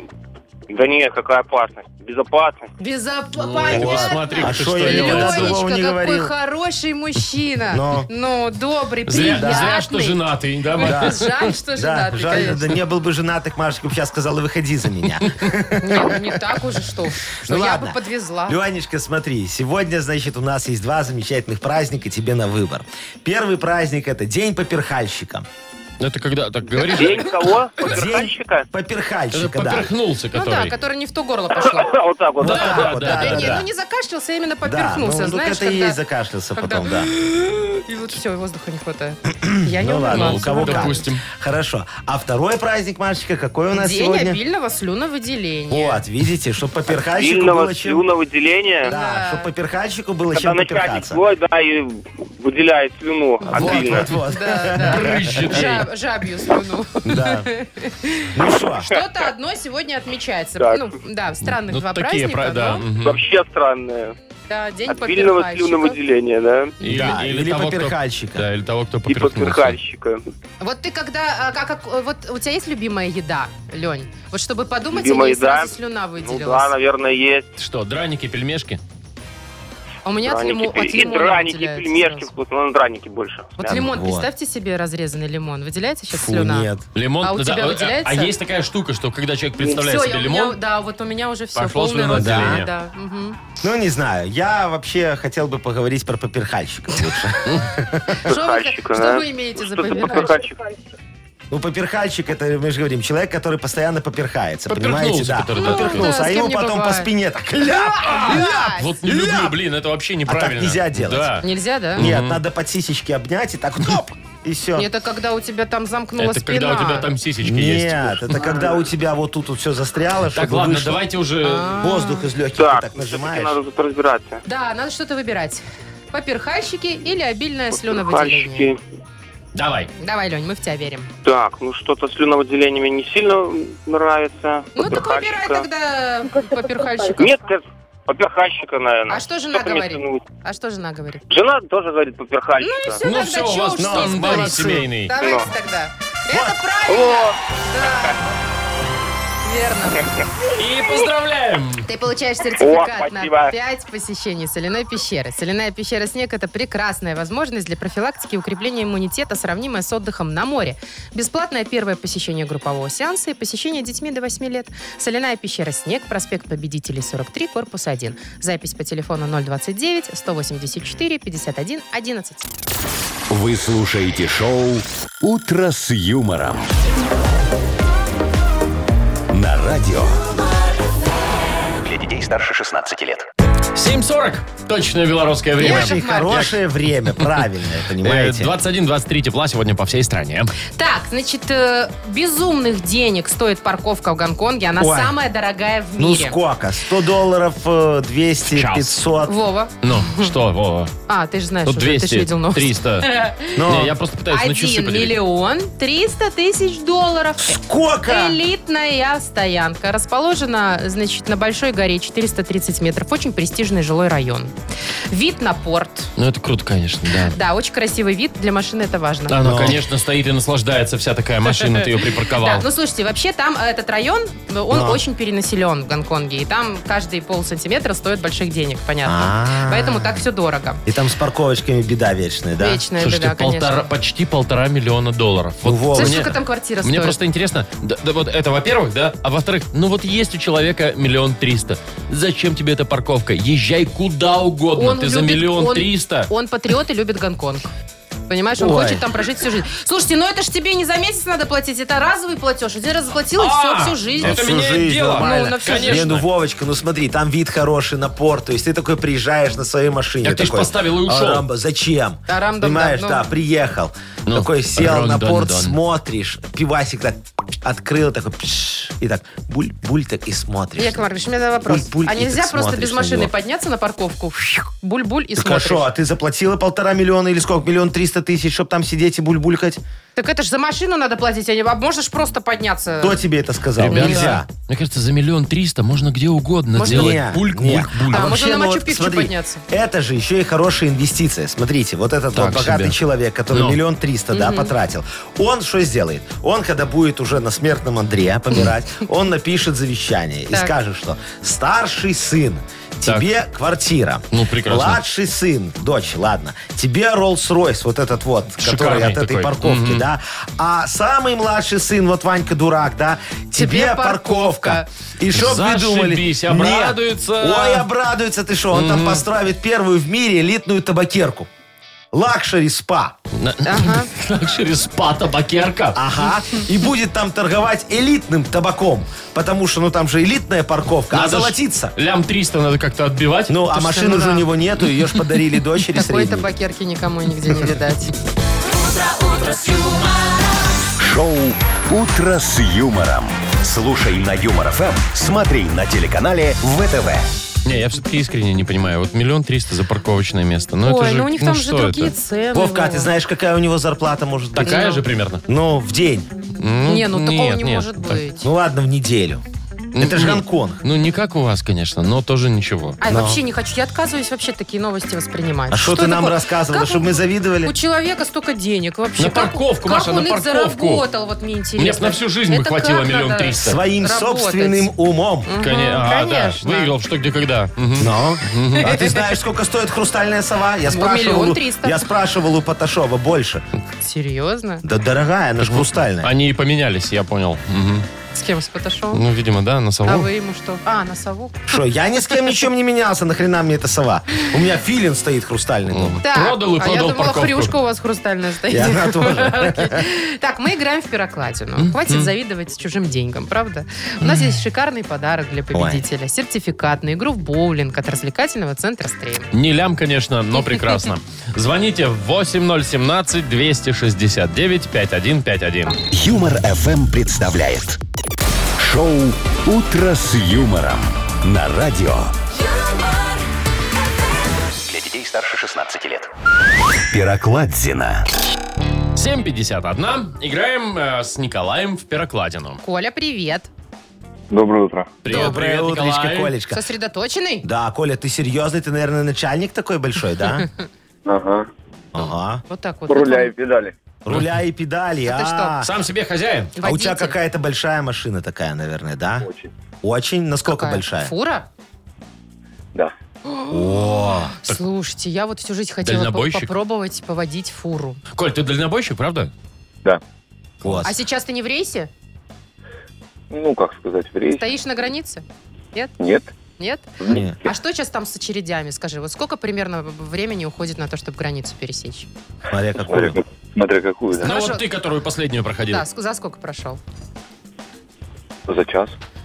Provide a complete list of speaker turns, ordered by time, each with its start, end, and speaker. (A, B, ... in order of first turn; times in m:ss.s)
0:00.7-0:02.7 A
0:02.8-0:10.2 B
0:03.4-0:05.6 C
0:03.7-0:06.3 D
0:07.7-0:08.1 D
0:09.1-0:11.4 C
0:09.3-0:09.8 D
0:10.7-0:12.7 B
0:10.8-0:16.4 D
0:15.8-0:18.6 B
0:17.4-0:25.5 D
0:26.0-0:27.3 C
0:26.8-0:27.2 B
0:27.0-0:28.7 A
0:27.8-0:29.9 D
0:29.3-0:30.7 C
0:30.3-0:36.0 B
0:31.6-0:32.8 A
0:32.4-0:33.7 D
0:32.4-0:33.6 C
0:34.6-0:37.1 D
0:36.6-0:41.0 B
0:39.4-0:44.4 D
0:40.1-0:41.2 C
0:43.7-0:46.0 B
0:45.7-0:48.0 D
0:47.1-0:48.9 A
0:48.8-0:51.2 D
0:48.8-0:49.5 B
0:50.3-0:54.2 A
0:53.5-0:55.4 D
0:53.6-0:58.3 B
0:54.8-0:55.9 C
0:57.0-0:57.5 D
0:58.3-0:58.9 D
0:58.8-1:02.8 B
1:00.6-1:00.9 A
1:01.4-1:03.2 C
1:03.0-1:04.2 A
1:04.5-1:06.0 B
1:04.9-1:06.8 A
1:06.8-1:09.8 C
1:06.8-1:08.5 D
1:09.1-1:10.2 A
1:10.6-1:16.7 B
1:14.9-1:17.5 A
1:17.6-1:18.8 C
1:20.0-1:22.3 B
1:20.2-1:23.9 A
1:23.6-1:26.7 B
1:23.6-1:24.3 D
1:26.1-1:26.9 D
1:27.0-1:30.6 C
1:27.2-1:28.3 B
1:29.6-1:33.4 B
1:31.6-1:32.7 C
1:32.1-1:32.6 D
1:33.6-1:38.2 D
1:38.3-1:40.4 B
1:38.3-1:40.6 A
1:41.5-1:49.6 D
1:44.7-1:46.1 C
1:45.6-1:49.0 B
1:48.0-1:52.4 C
1:50.3-1:51.3 D
1:51.4-1:52.0 B
1:52.0-1:54.9 D
1:54.8-1:57.1 B
1:56.2-1:58.4 C
1:57.4-2:01.0 D
2:00.3-2:01.7 C
2:01.4-2:02.3 B
2:01.8-2:03.6 D
2:02.6-2:04.4 A
2:04.4-2:08.7 B
2:07.8-2:08.8 A
2:09.6-2:09.9 C
2:10.0-2:11.1 B
2:11.2-2:15.7 A
2:14.8-2:17.4 B
2:17.2-2:20.2 A
2:19.1-2:21.2 B
2:21.3-2:23.0 A
2:22.6-2:28.2 B
2:23.0-2:25.1 C
2:23.8-2:24.9 D
2:25.2-2:25.5 A
2:26.3-2:26.6 D
2:26.9-2:28.1 A
2:29.4-2:30.1 B
2:30.6-2:31.9 C
2:31.9-2:52.5 B
2:32.6-2:33.5 A
2:53.3-2:56.7 E
2:59.3-3:00.2 E
3:01.8-3:03.3 F
3:03.8-3:06.0 C
3:05.6-3:08.6 D
3:05.6-3:06.6 B
3:08.0-3:10.5 C
3:10.8-3:16.4 B
3:14.8-3:15.2 D
3:16.0-3:19.4 D
3:18.5-3:19.0 C
3:19.2-3:20.3 B
3:19.8-3:20.9 C
3:21.1-3:23.6 B
3:21.7-3:25.2 C
3:23.6-3:24.0 D
3:24.3-3:34.5 B
3:27.4-3:28.4 D
3:35.1-3:36.1 B
3:36.2-3:37.4 C
3:37.3-3:39.4 B
3:39.3-3:42.7 C
3:39.4-3:39.8 D
3:42.4-3:50.8 B
3:44.7-3:45.0 D
3:49.0-3:50.3 D
3:50.8-3:52.8 D
3:52.6-3:53.9 B
3:53.0-4:06.3 C
3:55.6-3:56.3 D
3:55.9-3:57.2 B
4:04.8-4:07.7 B
4:08.3-4:16.1 B
4:08.6-4:09.1 D
4:13.4-4:16.3 C
4:14.2-4:31.0 D
4:20.2-4:21.4 C
4:22.3-4:23.2 B
4:24.3-4:25.8 C
4:30.8-4:35.9 B
4:31.6-4:33.3 D
4:35.4-4:39.8 D
4:40.2-4:43.2 B
4:43.0-4:44.5 D
4:43.8-4:48.3 C
4:43.9-4:44.4 B
4:46.8-4:47.2 B
4:46.8-5:21.5 D
4:48.1-4:49.6 B
4:52.3-4:53.0 C
4:53.5-4:53.8 C
4:54.3-4:54.7 B
5:04.3-5:05.0 C
5:08.6-5:10.1 C
5:13.6-5:14.9 B
5:15.3-5:17.9 C
5:18.7-5:19.2 C
5:22.1-5:23.2 D
5:23.3-5:26.0 C
5:23.6-5:24.1 B
5:26.0-5:32.0 D
5:31.1-5:33.6 C
5:33.5-5:36.5 D
5:33.7-5:34.5 B
5:35.9-5:38.1 B
5:38.7-5:40.8 G
5:41.0-5:47.3 E
5:47.6-5:52.1 C
5:50.8-5:53.1 B
5:52.5-5:54.9 D
5:54.6-5:55.4 C
5:54.6-5:55.0 B
5:55.5-5:56.3 D
5:56.6-5:58.2 C
5:56.8-5:58.5 B
5:58.4-5:59.4 D
5:59.9-6:03.0 C
6:00.0-6:00.8 D
6:03.0-6:14.9 B
6:03.1-6:03.4 D
6:05.7-6:07.7 D
6:09.2-6:11.0 C
6:11.8-6:13.8 C
6:13.6-6:15.5 D
6:15.5-6:16.9 B
6:15.6-6:18.9 C
6:18.0-6:23.6 D
6:18.8-6:19.2 B
6:20.9-6:22.1 B
6:24.0-6:24.8 B
6:24.8-6:26.3 D
6:25.6-6:28.1 C
6:28.3-6:29.2 B
6:29.1-6:30.3 C
6:30.1-6:31.7 B
6:31.7-6:36.2 D
6:35.9-6:37.7 C
6:36.2-6:49.5 B
6:38.7-6:40.1 D
6:41.8-6:42.3 C
6:45.7-6:46.0 D
6:49.5-6:56.0 C
6:50.6-6:51.0 B
6:56.1-6:58.0 E
6:58.8-7:02.3 E
7:02.6-7:03.3 G
7:04.9-7:06.3 F
7:07.1-7:08.3 E
7:09.2-7:12.8 C
7:12.8-7:13.7 B
7:14.5-7:15.2 H
7:15.2-7:16.5 C
7:15.3-7:15.6 B
7:15.3-7:16.8 D
7:16.7-7:17.7 B
7:17.6-7:20.7 D
7:21.2-7:21.7 H
7:22.1-7:22.6 D
7:22.7-7:23.5 B
7:23.1-7:23.9 H
7:24.2-7:25.9 D
7:25.2-7:25.8 B
7:25.8-7:26.7 C
7:26.8-7:27.4 B
7:26.8-7:29.5 D
7:29.4-7:29.7 H
7:30.0-7:31.3 D
7:30.7-7:31.7 B
7:33.5-7:38.2 B
7:33.7-7:34.5 D
7:36.0-7:36.7 C
7:38.3-7:39.5 C
7:40.8-7:41.1 D
7:41.0-7:42.1 B
7:43.5-7:44.7 H
7:44.6-7:46.1 B
7:46.2-7:46.5 H
7:46.8-7:52.3 B
7:47.2-7:47.7 H
7:47.3-7:47.6 D
7:52.7-7:53.4 D
7:53.0-7:54.5 H
7:54.4-7:54.8 B
7:54.4-7:56.0 C
7:55.9-7:57.0 B
7:58.7-7:59.2 H